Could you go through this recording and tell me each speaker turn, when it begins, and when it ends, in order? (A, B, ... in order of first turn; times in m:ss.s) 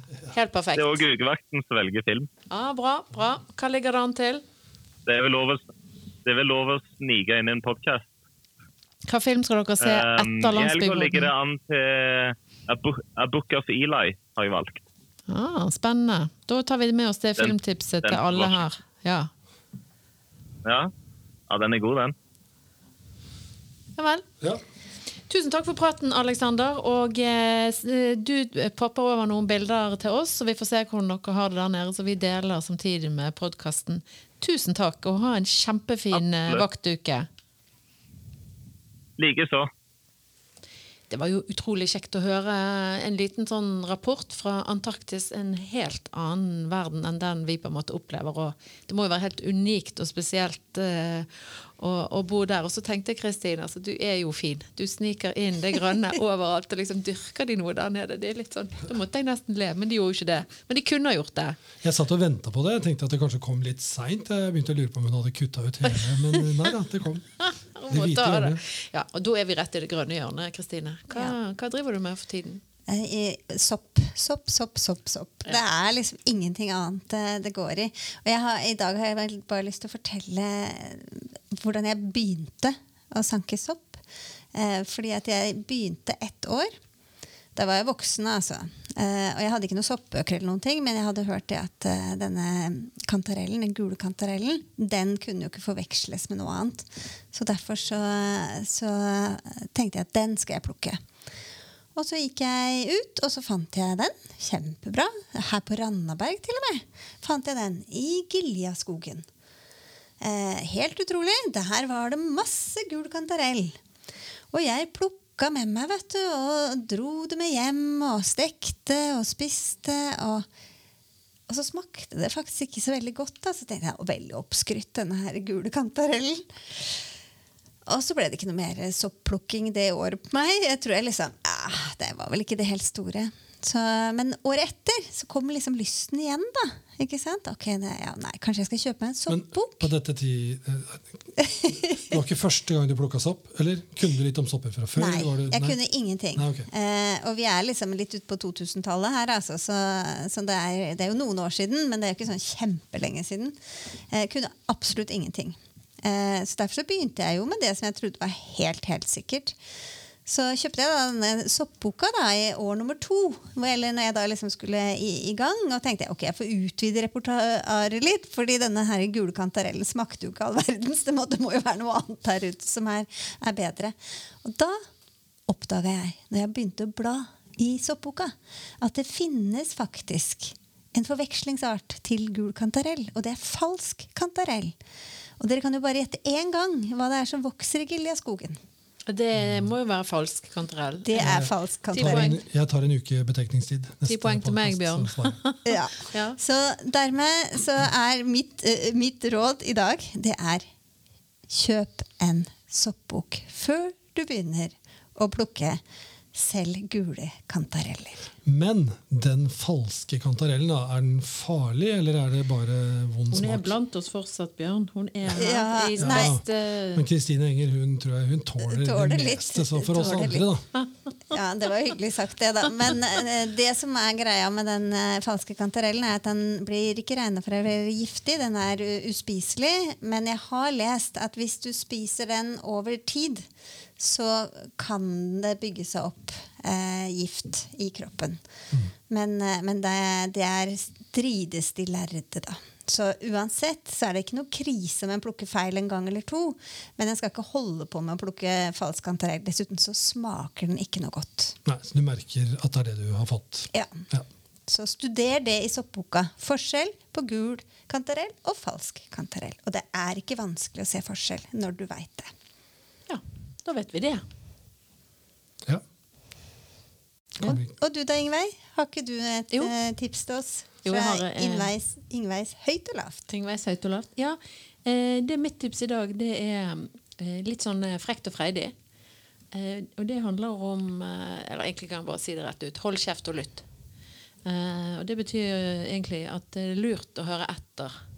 0:00.3-0:01.0 A
0:00.8-0:02.3 B
0:02.5-0:04.4 A
0:05.0-0:05.6 B
0:06.2-0:08.1 B
0:09.1-0:11.3 A
0:09.8-0:14.8 B
0:15.3-0:19.3 A
0:17.4-0:18.6 B
0:20.6-0:20.9 B
0:21.5-0:22.1 B
0:24.0-0:24.2 A
0:25.3-0:37.3 A
0:36.1-0:36.6 B
0:39.2-0:39.7 B
0:41.1-1:01.6 A
1:01.8-1:07.4 C
1:05.9-1:06.7 A
1:07.4-1:12.6 A
1:07.9-1:08.6 C
1:12.9-1:24.0 D
1:24.5-1:26.7 D
1:27.6-1:41.0 D
1:41.9-1:49.2 D
1:50.2-1:53.8 D
1:54.5-2:00.4 D
2:01.5-2:06.8 D
2:07.9-2:19.9 D
2:19.3-2:25.8 C
2:21.4-2:22.0 D
2:25.0-2:33.6 D
2:26.4-2:26.7 C
2:34.1-2:39.5 D
2:40.2-2:54.8 D
2:55.5-3:04.8 D
3:05.4-3:08.6 D
3:09.0-3:12.4 A
3:09.4-3:09.7 C
3:11.0-3:12.3 D
3:11.1-3:15.4 C
3:14.1-3:16.4 A
3:15.6-3:20.6 D
3:21.5-3:25.8 D
3:26.3-3:28.2 D
3:28.4-3:33.7 C
3:33.3-3:37.0 A
3:35.3-3:36.4 D
3:36.0-3:40.6 C
3:38.6-3:40.5 D
3:41.3-3:58.4 D
3:59.1-4:11.6 D
4:11.6-4:14.2 C
4:13.7-4:14.0 D
4:14.7-4:22.3 D
4:23.1-4:24.2 A
4:27.4-4:27.7 C
4:27.7-4:33.2 D
4:30.8-4:31.7 A
4:33.3-4:38.7 A
4:39.5-4:43.6 A
4:44.4-4:47.9 A